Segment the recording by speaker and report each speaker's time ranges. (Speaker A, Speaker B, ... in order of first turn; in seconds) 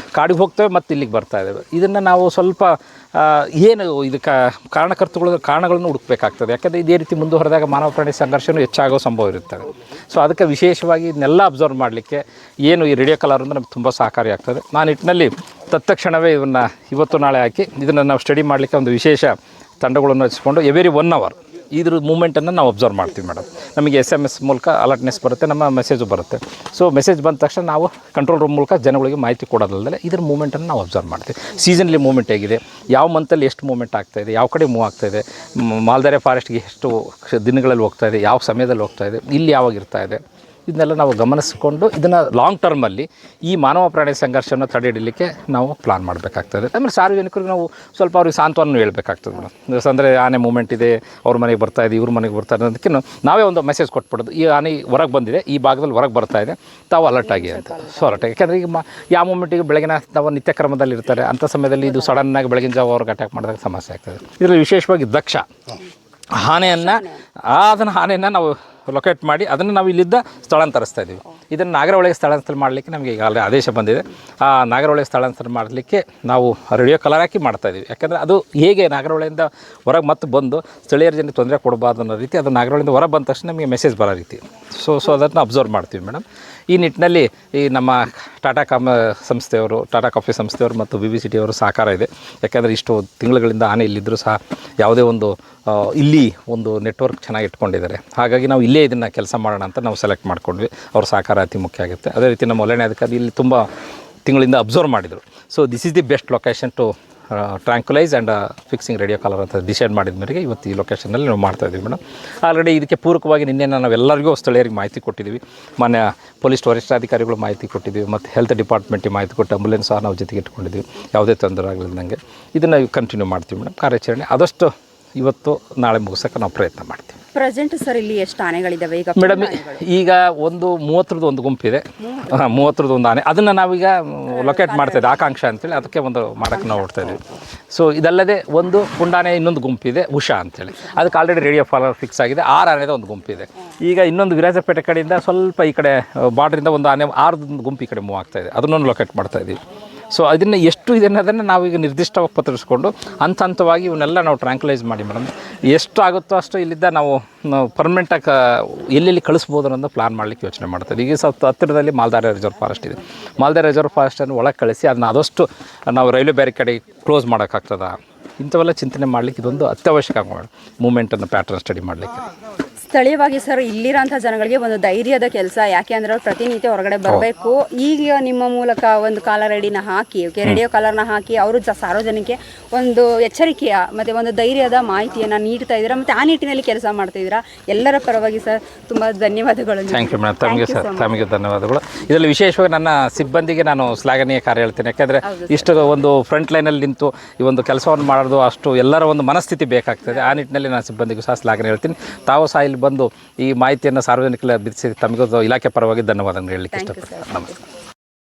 Speaker A: 0.1-65.5, 66.3-103.7, 104.2-127.2, 129.2-149.6, 150.1-172.2, 189.9-207.5
Speaker B: 57.4-58.0, 66.7-67.2, 127.3-129.8, 132.0-132.4, 134.3-135.2, 172.8-191.2, 195.2-195.9, 206.7-207.6